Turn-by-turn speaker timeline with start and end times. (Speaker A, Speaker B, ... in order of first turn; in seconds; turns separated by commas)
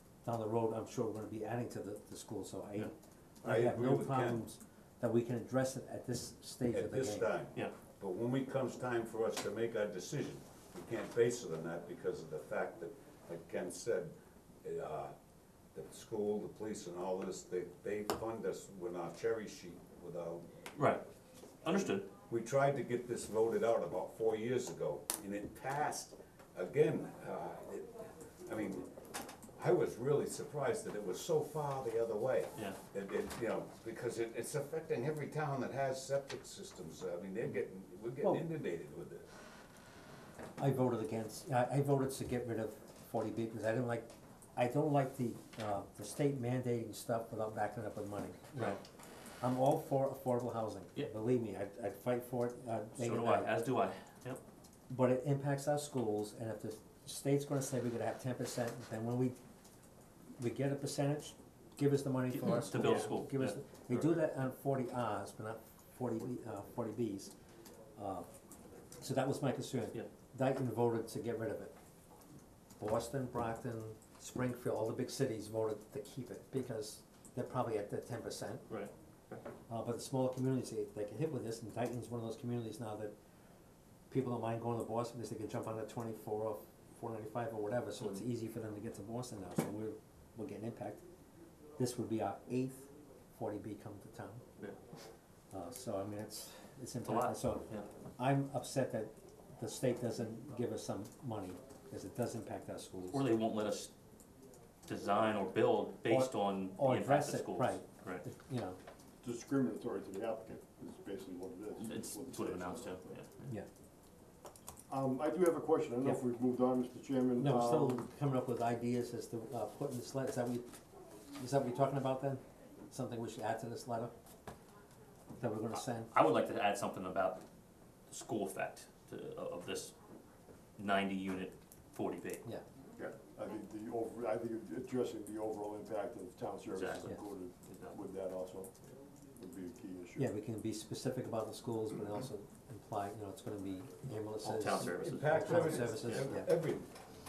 Speaker A: 0.2-7.3, Speaker B: 3.4-4.4, Speaker B: 6.7-15.2, Speaker B: 15.7-20.5, Speaker C: 20.8-21.0, Speaker C: 21.6-22.1, Speaker B: 21.7-28.9, Speaker B: 29.6-39.3, Speaker A: 38.2-38.5, Speaker A: 40.6-48.8, Speaker A: 49.4-53.5, Speaker C: 53.0-54.4, Speaker A: 54.9-59.4, Speaker A: 60.4-67.3, Speaker C: 62.4-64.2, Speaker A: 68.0-68.3, Speaker A: 69.0-71.7, Speaker A: 72.8-78.7, Speaker C: 78.7-79.4, Speaker A: 79.7-83.2, Speaker A: 84.1-91.0, Speaker C: 88.0-88.2, Speaker A: 91.8-94.4, Speaker A: 95.5-103.3, Speaker C: 97.0-97.9, Speaker C: 103.1-103.9, Speaker C: 104.9-108.2, Speaker A: 106.1-108.8, Speaker D: 109.2-113.0, Speaker C: 111.8-113.5, Speaker D: 114.9-118.1, Speaker A: 117.4-120.7, Speaker A: 121.4-124.1, Speaker A: 125.4-126.1, Speaker C: 126.1-127.4, Speaker C: 128.1-129.9, Speaker C: 130.8-132.4, Speaker D: 133.0-138.7, Speaker C: 136.7-138.0, Speaker D: 139.4-140.3, Speaker A: 140.2-146.5, Speaker C: 144.4-146.2, Speaker B: 144.9-146.9